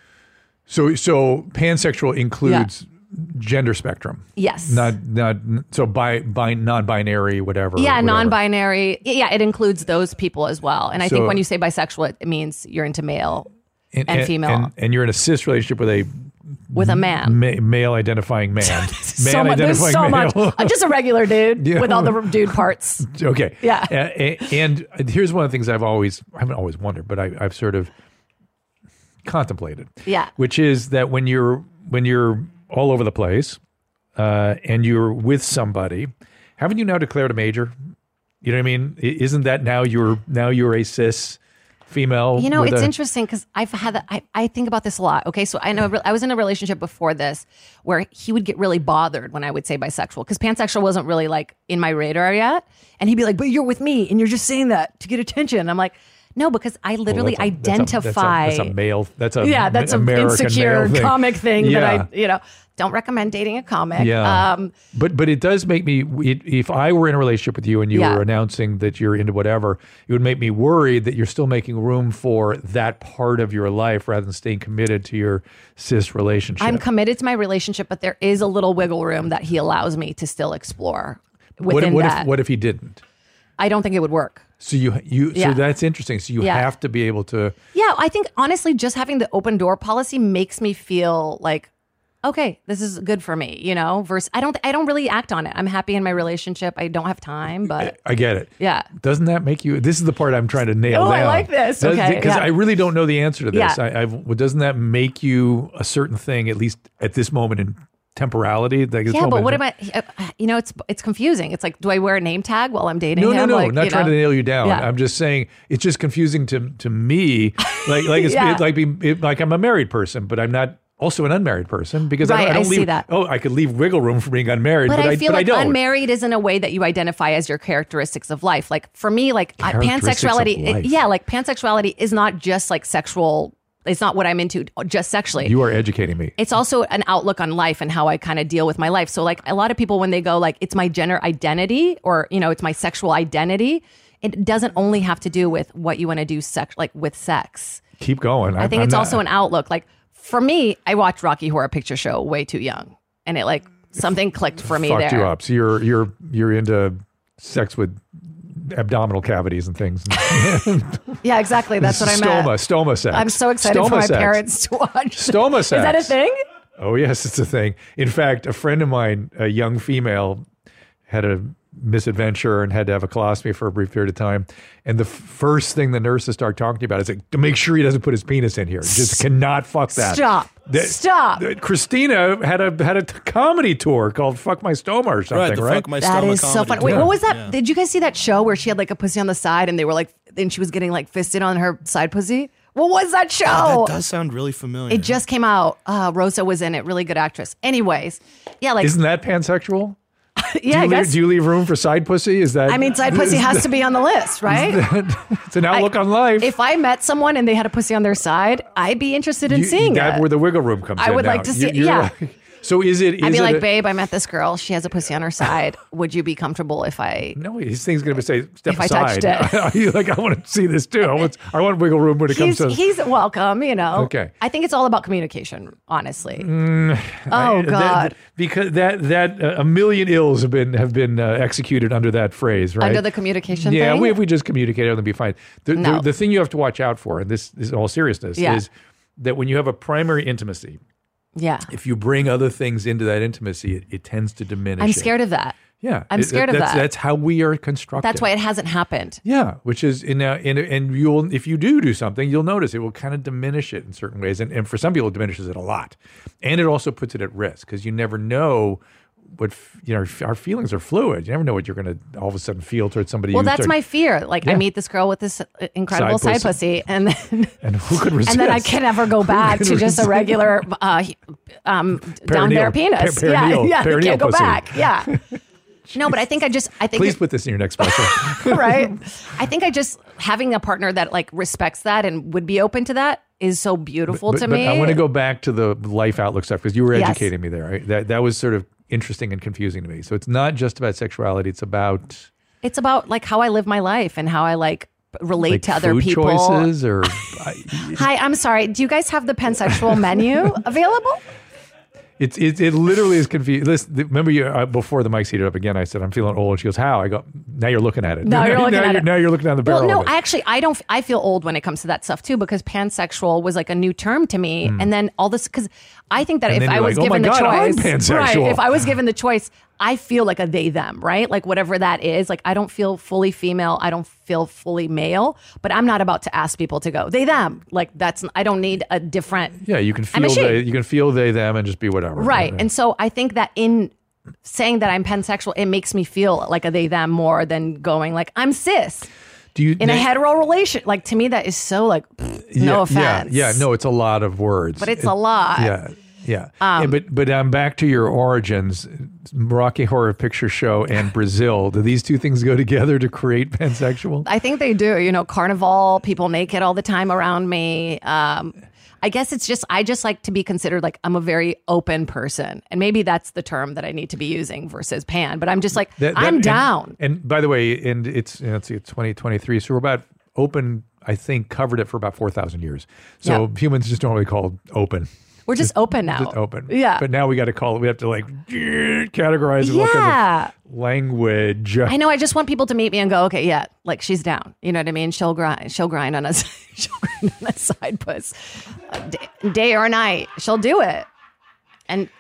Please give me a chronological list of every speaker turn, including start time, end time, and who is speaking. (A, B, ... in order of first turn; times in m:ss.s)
0:00.7-0:08.4 A
0:02.4-0:02.7 B
0:04.4-0:04.9 B
0:07.8-0:13.5 B
0:11.0-0:11.4 A
0:13.9-0:20.8 A
0:14.1-0:14.7 B
0:16.7-0:17.4 B
0:18.6-0:23.1 B
0:21.6-0:27.9 A
0:23.6-0:23.9 B
0:29.2-0:33.6 A
0:30.1-0:30.3 B
0:34.2-0:37.8 A
0:38.4-0:42.9 A
0:42.4-0:58.8 B
0:57.1-1:02.1 A
0:59.4-1:04.7 B
1:04.0-1:16.8 A
1:07.9-1:08.2 B
1:16.6-1:22.3 B
1:21.6-1:23.0 A
1:23.6-1:24.5 B
1:24.6-1:27.6 A
1:25.3-1:25.6 B
1:26.4-1:26.7 B
1:27.7-1:31.7 B
1:32.2-1:38.0 B
1:37.8-1:49.6 A
1:38.6-1:38.9 B
1:40.9-1:42.6 B
1:43.5-1:43.8 B
1:49.1-1:54.9 B
1:53.2-2:05.8 A
1:57.6-1:58.7 B
2:02.2-2:03.1 B
2:04.9-2:15.6 B
2:09.6-2:11.0 A
2:15.4-2:16.4 A
2:16.4-2:27.8 B
2:28.0-2:29.2 A
2:28.6-2:35.3 B
2:34.7-2:41.2 A
2:40.2-2:40.6 B
2:41.2-2:42.6 B
2:41.8-2:44.4 A
2:43.1-2:46.4 B
2:45.2-2:46.1 A
2:46.8-2:50.4 A
2:51.1-3:05.9 A
2:58.8-2:59.2 B
2:59.9-3:01.5 B
3:05.3-3:07.6 C
3:06.0-3:14.0 B
3:06.8-3:07.1 A
3:13.4-3:15.2 C
3:14.9-3:18.9 B
3:18.8-3:20.0 A
3:20.4-3:21.3 B
3:20.7-3:23.7 A
3:22.7-3:24.9 B
3:24.5-3:26.5 A
3:25.7-3:30.3 B
3:29.5-3:33.6 A
3:31.0-3:32.1 B
3:33.2-3:37.4 B
3:37.4-3:42.8 A
3:38.7-3:39.7 B
3:42.3-3:46.5 B
3:44.0-3:44.3 A
3:46.4-4:00.8 A
3:47.3-3:48.2 B
3:52.8-3:54.2 B
3:55.8-3:56.1 B
3:58.4-3:58.6 B
4:01.4-4:01.7 B
4:01.7-4:05.1 A
4:04.8-4:05.6 B
4:05.8-4:08.3 A
4:06.1-4:06.9 B
4:08.0-4:09.2 B
4:09.2-4:18.8 A
4:19.3-4:23.8 A
4:23.3-4:27.6 B
4:25.9-4:26.6 A
4:27.6-4:30.6 A
4:28.2-4:35.2 B
4:32.1-4:35.4 A
4:36.0-4:37.2 B
4:36.9-4:39.0 A
4:37.8-4:45.0 B
4:44.1-4:52.3 A
4:46.9-4:47.3 B
4:52.6-5:01.2 B
4:55.5-4:58.1 A
5:02.2-5:10.1 A
5:08.2-5:30.6 B
5:14.6-5:14.9 A
5:16.5-5:18.7 A
5:29.6-5:32.7 A
5:32.2-5:33.9 B
5:34.4-5:39.1 B
5:39.6-5:40.1 A
5:39.8-5:43.7 B
5:42.5-5:54.3 A
5:44.8-5:45.8 B
5:46.6-5:47.0 B
5:54.2-6:07.0 B
6:06.0-6:22.0 A
6:15.5-6:17.0 B
6:19.6-6:20.5 B
6:21.9-6:31.1 B